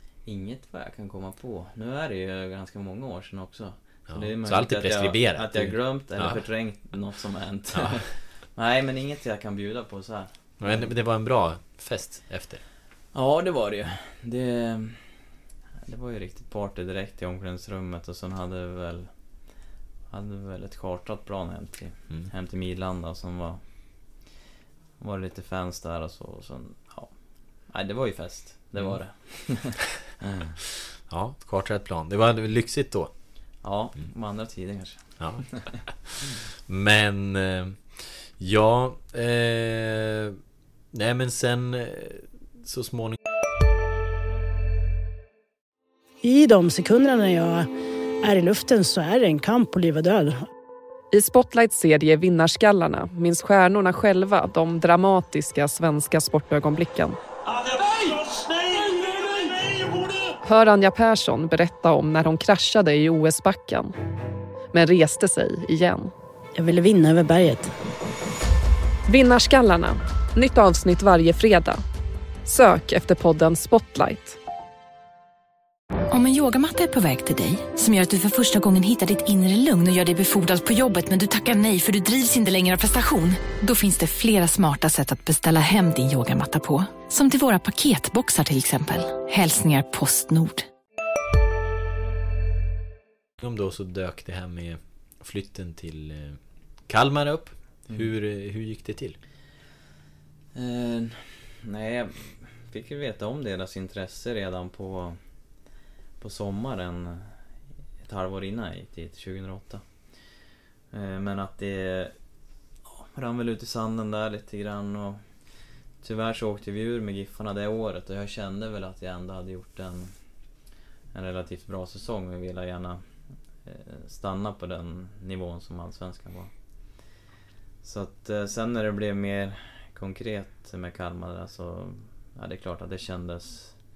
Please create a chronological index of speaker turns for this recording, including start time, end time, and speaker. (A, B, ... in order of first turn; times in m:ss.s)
0:00.2-0:10.9 A
0:04.1-0:06.4 B
0:07.7-0:08.0 B
0:10.6-0:12.6 B
0:13.1-0:15.2 A
0:15.8-0:19.1 A
0:20.1-0:23.6 A
0:25.0-0:30.6 A
0:30.7-0:33.1 B
0:33.6-0:35.8 A
0:35.2-0:40.4 B
0:40.9-0:43.2 B
0:46.2-0:47.7 C
0:48.2-0:50.4 C
0:51.1-0:57.2 D
1:00.4-1:03.9 D
1:04.7-1:06.1 D
1:06.5-1:07.7 C
1:09.0-1:11.8 D
1:12.4-1:14.4 D
1:16.1-1:30.6 E
1:33.4-1:39.2 B
1:40.5-1:45.2 A
1:46.2-1:47.4 A
1:48.0-1:49.8 A
1:50.9-1:52.1 A
1:52.8-1:55.2 A
1:56.0-2:00.1 A
2:01.1-2:03.0 A
2:03.6-2:06.5 A
2:07.8-2:13.8 A